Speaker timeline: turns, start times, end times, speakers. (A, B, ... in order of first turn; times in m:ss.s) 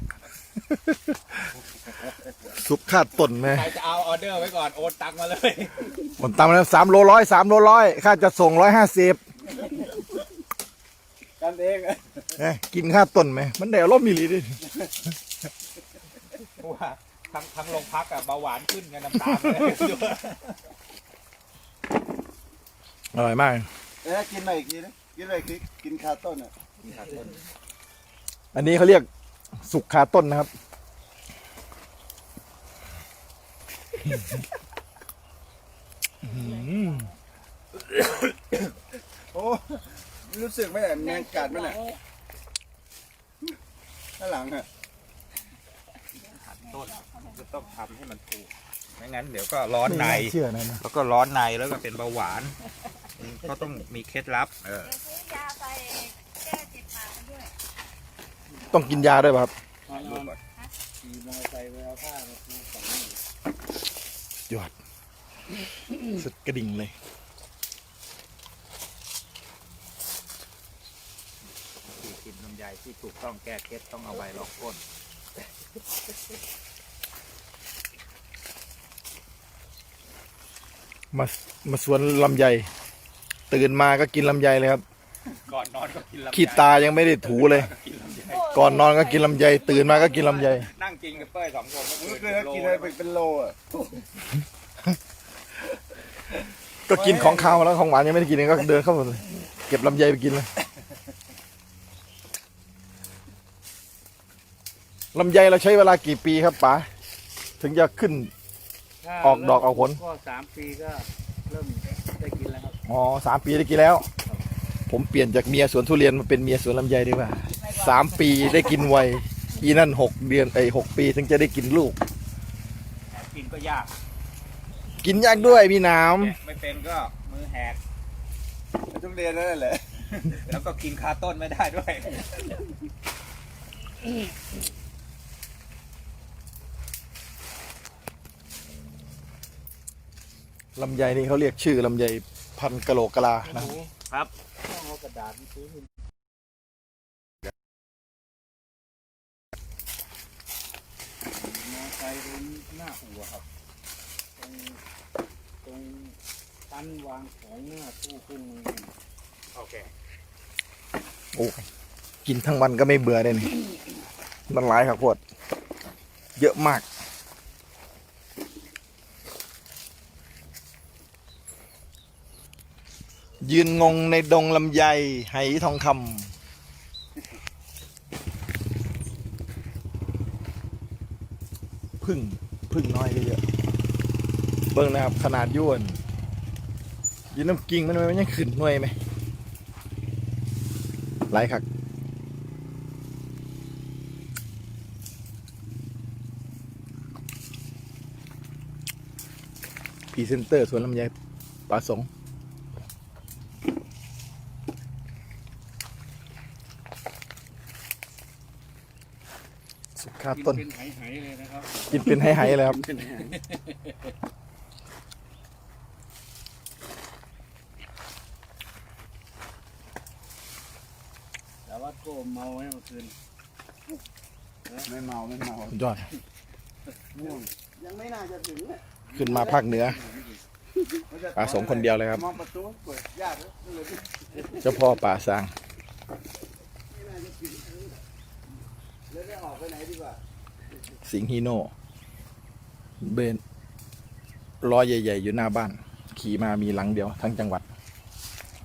0:00.7-0:01.5 A
0:02.5-0:03.7 A
0:03.4-0:06.0 B
0:06.2-0:09.2 A
0:11.4-0:12.4 C
0:12.4-0:14.6 A
0:14.6-0:14.9 C
0:16.6-0:20.6 B
0:23.1-0:23.7 A
0:24.0-0:26.5 C
0:26.8-0:27.4 B
0:28.5-0:29.1 A
0:29.6-0:30.5 A
0:36.2-0:37.1 A
0:36.2-0:37.1 D
0:38.0-0:38.7 C
0:39.3-0:41.8 C
0:41.0-0:42.0 D
0:44.2-0:44.7 C
0:46.2-0:47.8 D
0:46.2-0:52.6 B
0:49.8-0:50.8 A
0:53.2-0:54.9 B
0:54.8-0:57.5 D
0:58.7-0:59.5 A
0:59.9-1:00.4 E
0:59.9-1:00.4 B
1:01.0-1:03.2 E
1:06.1-1:06.9 A
1:11.9-1:14.8 B
1:21.1-1:22.7 A
1:23.5-1:24.8 A
1:25.3-1:28.7 B
1:26.3-1:27.7 A
1:28.3-1:29.6 D
1:28.5-1:30.7 A
1:29.6-1:33.0 B
1:32.0-1:34.0 C
1:36.9-1:40.5 A
1:36.9-1:37.6 C
1:45.1-1:46.9 A
1:47.6-1:48.3 A
1:49.0-1:52.8 E
1:49.2-1:50.0 A
1:52.9-1:54.1 A
1:54.9-2:02.0 A
2:03.1-2:03.9 B
2:05.0-2:06.4 A
2:05.3-2:07.8 B
2:08.8-2:10.5 C
2:10.4-2:12.4 B
2:20.8-2:23.8 A
2:23.4-2:23.9 E
2:24.6-2:25.9 E
2:31.3-2:33.4 E
2:34.4-2:34.8 E
2:35.6-2:36.2 E
2:36.7-2:38.9 E
2:39.6-2:39.9 B
2:41.3-2:41.6 A
2:42.2-2:43.6 A
2:44.5-2:45.2 A
2:46.4-2:46.9 A
2:53.4-2:56.3 A
3:02.0-3:03.4 A
3:04.7-3:06.0 A
3:07.3-3:09.0 A
3:11.3-3:11.6 A
3:20.1-3:21.1 A
3:21.7-3:22.1 A
3:30.0-3:30.6 A
3:30.3-3:32.2 E
3:31.9-3:32.8 A
3:31.9-3:33.4 C
3:33.3-3:34.1 E
3:41.7-3:43.2 E
3:44.9-3:45.8 C
3:45.7-3:46.1 A
3:47.1-3:50.4 C
3:49.1-3:50.0 A
3:51.1-3:55.0 C
3:51.4-3:52.2 A
3:54.6-3:55.5 A
3:56.9-3:58.0 C
3:59.1-4:00.2 C
4:01.0-4:01.7 A
4:03.0-4:03.4 A
4:04.6-4:07.6 A